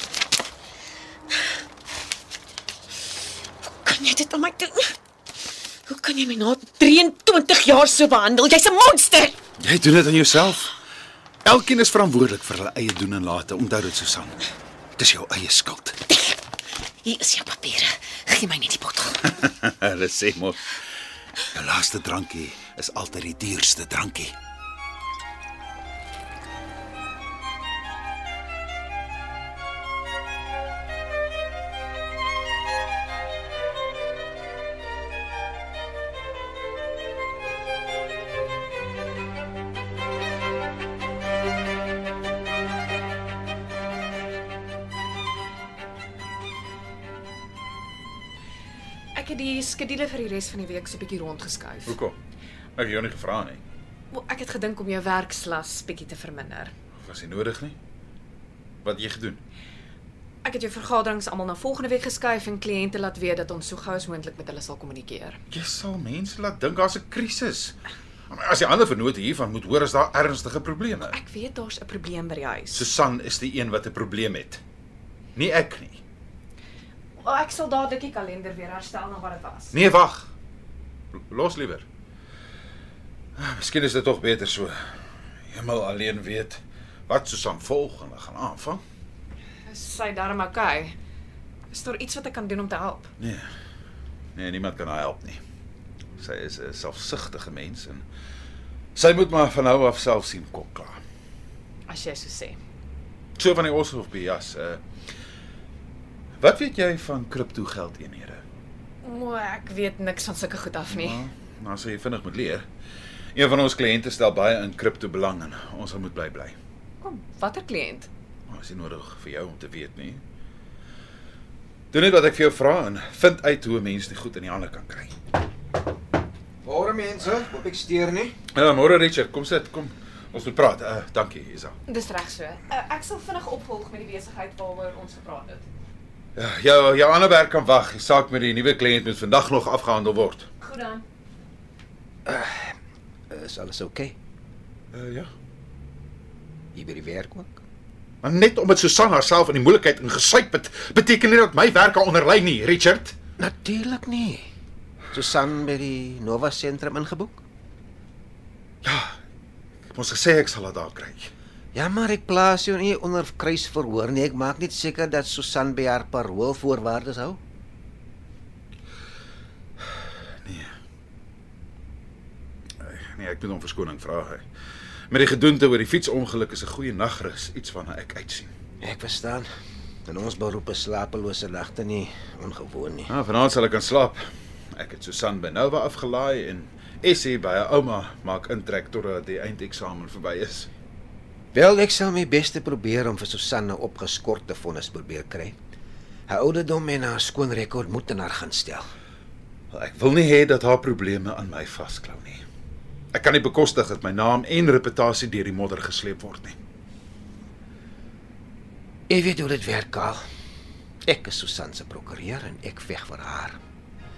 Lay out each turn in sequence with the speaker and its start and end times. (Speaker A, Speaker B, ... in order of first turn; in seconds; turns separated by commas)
Speaker A: 3.6-4.9, Speaker A: 5.9-9.3, Speaker B: 9.6-10.7, Speaker B: 11.4-16.0, Speaker A: 16.1-16.4, Speaker A: 17.0-19.4, Speaker B: 19.4-20.8, Speaker B: 21.5-24.3, Speaker C: 49.1-52.0, Speaker B: 51.9-52.1, Speaker B: 52.8-53.6, Speaker C: 54.1-56.7, Speaker B: 57.0-57.8, Speaker B: 58.8-59.4, Speaker C: 60.4-65.4, Speaker B: 65.5-67.8, Speaker B: 68.3-71.2, Speaker C: 71.1-72.8, Speaker B: 72.7-74.6, Speaker B: 75.3-76.0, Speaker C: 77.2-79.7, Speaker B: 79.7-80.3, Speaker B: 81.1-81.8, Speaker B: 83.4-84.7, Speaker B: 85.5-88.8, Speaker C: 89.7-91.0, Speaker C: 91.7-93.1, Speaker B: 93.2-93.5, Speaker B: 94.3-95.4, Speaker B: 96.2-98.0, Speaker B: 99.0-101.0, Speaker C: 101.9-102.6, Speaker B: 103.4-104.8, Speaker B: 106.4-108.4, Speaker C: 109.0-111.2, Speaker B: 110.9-112.6, Speaker B: 113.3-116.6, Speaker C: 117.0-118.1, Speaker B: 118.5-120.2, Speaker B: 121.9-125.1, Speaker D: 126.6-128.3, Speaker B: 128.5-131.8, Speaker C: 131.9-135.7, Speaker B: 136.3-140.5, Speaker C: 140.6-141.0, Speaker D: 142.2-142.7, Speaker D: 143.3-144.1, Speaker B: 144.9-145.3, Speaker D: 146.7-147.6, Speaker B: 148.2-153.2, Speaker D: 153.4-154.4, Speaker D: 155.1-157.4, Speaker B: 158.8-159.1, Speaker B: 159.9-161.3, Speaker D: 161.7-167.4, Speaker B: 170.4-170.7, Speaker B: 172.8-174.4, Speaker B: 175.1-178.5, Speaker D: 178.8-179.5, Speaker D: 180.1-183.1, Speaker B: 183.1-184.2, Speaker B: 184.7-190.7, Speaker D: 191.5-195.6, Speaker D: 196.3-198.9, Speaker B: 199.7-202.4, Speaker B: 203.1-206.6, Speaker D: 209.1-210.2, Speaker D: 211.1-213.6